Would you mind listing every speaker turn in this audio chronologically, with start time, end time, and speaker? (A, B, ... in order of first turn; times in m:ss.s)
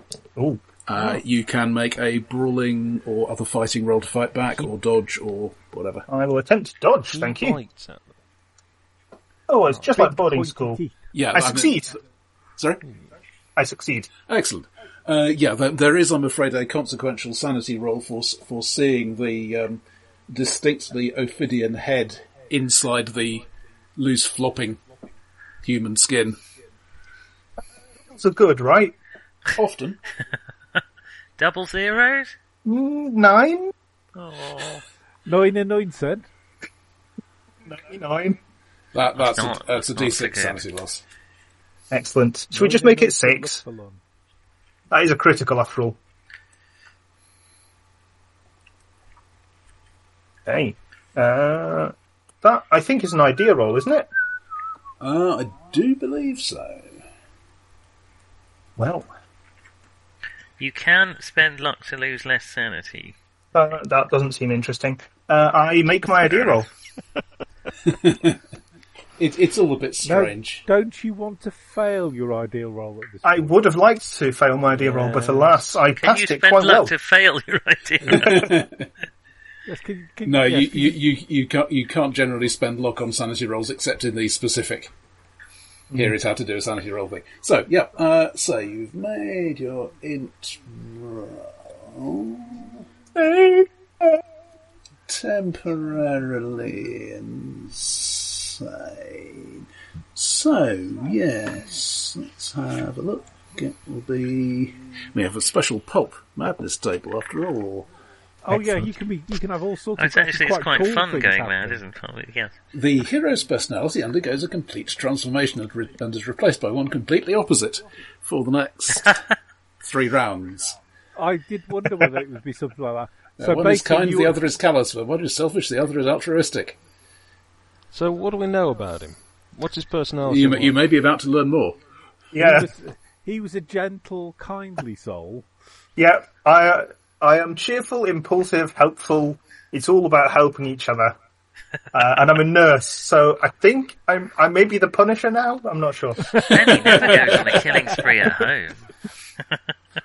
0:00.4-0:00.6 A
0:00.8-0:06.0 B
0:06.1-0:07.6 A
0:07.1-0:08.1 C
0:09.5-0:10.8 A
0:09.8-0:11.1 D
0:11.1-0:12.0 B
0:11.3-0:11.9 A
0:12.6-0:12.8 B
0:13.6-0:14.1 A
0:14.3-0:24.8 B
0:25.6-0:26.4 B
0:28.1-0:28.9 A
0:29.6-0:30.0 B
0:31.4-0:32.3 E
0:32.6-0:33.7 A
0:34.2-0:34.8 E
0:35.3-0:36.3 D
0:37.7-0:38.4 A
0:38.9-0:41.0 B
0:39.2-0:40.6 E
0:41.9-0:43.6 A
0:42.5-0:44.0 D
0:44.9-0:46.0 A
0:50.5-0:54.1 A
0:55.0-0:57.0 B
0:58.8-0:59.1 A
1:00.6-1:03.1 E
1:03.5-1:06.7 A
1:07.8-1:08.4 B
1:09.2-1:10.6 B
1:10.0-1:13.6 D
1:13.2-1:16.9 A
1:14.8-1:15.6 C
1:16.0-1:18.5 E
1:18.0-1:18.9 B
1:19.6-1:21.0 D
1:20.2-1:24.9 B
1:25.9-1:32.8 B
1:33.1-1:34.2 A
1:35.1-1:47.9 B
1:48.4-1:51.8 D
1:50.0-1:52.5 E
1:52.7-1:59.2 B
1:59.8-2:00.8 B
2:01.2-2:04.4 D
2:03.4-2:06.8 B
2:07.9-2:10.8 C
2:10.2-2:11.8 B
2:12.3-2:12.7 A
2:12.4-2:15.5 D
2:16.0-2:21.2 A
2:21.9-2:26.5 A
2:26.5-2:28.8 E
2:26.6-2:27.6 B